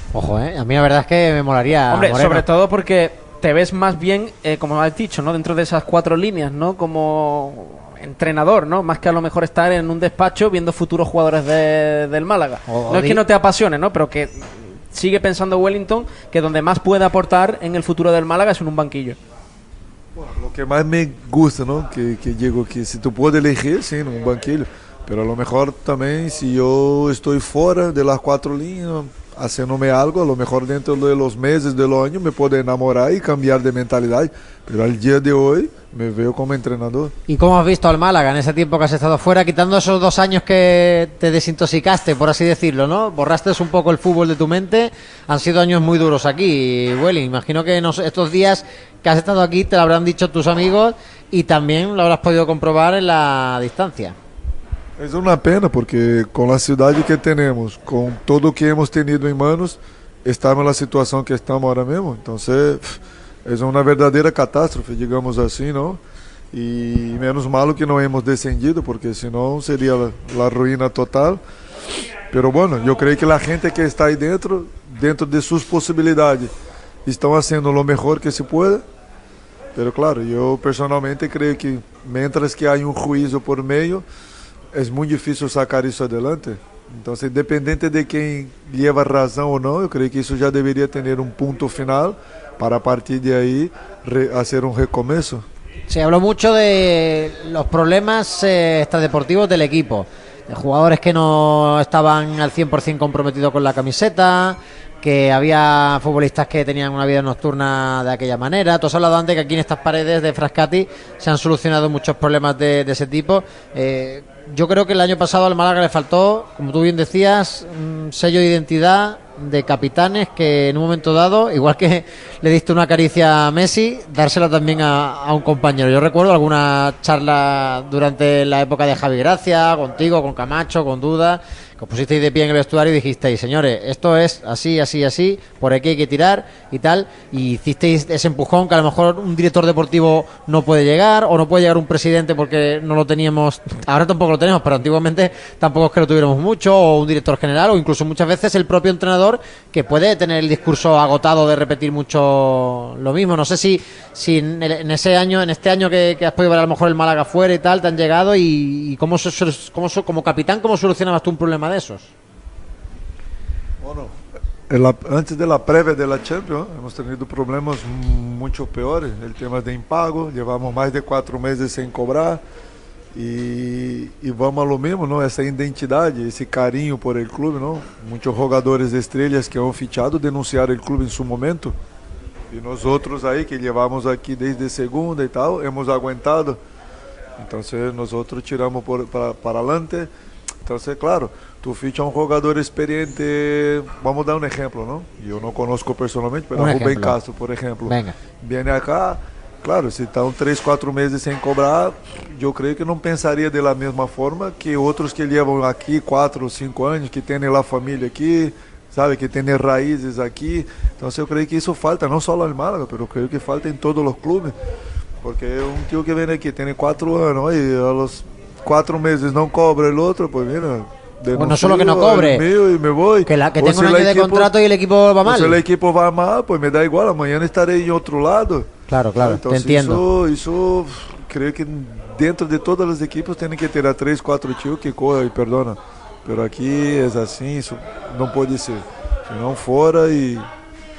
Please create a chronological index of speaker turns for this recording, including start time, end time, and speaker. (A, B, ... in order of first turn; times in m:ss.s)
0:00.1-0:02.4 A
0:01.9-0:19.2 B
0:12.7-0:13.2 A
0:20.2-0:37.1 C
0:37.3-0:54.2 A
0:55.0-1:06.0 C
1:06.5-1:11.4 C
1:12.3-1:16.5 C
1:17.1-1:18.8 C
1:19.8-1:24.0 C
1:24.7-1:35.5 C
1:35.9-2:42.1 A
2:43.8-2:44.2 C
2:44.7-2:52.4 C
2:53.1-3:01.8 C
3:02.5-3:06.6 C
3:07.4-3:10.1 C
3:10.6-3:34.5 C
3:16.6-3:17.2 A
3:17.9-3:18.2 A
3:35.2-3:44.5 C
3:41.4-3:42.4 A
3:43.3-3:45.6 A
3:45.2-4:00.5 C
3:48.9-3:50.0 A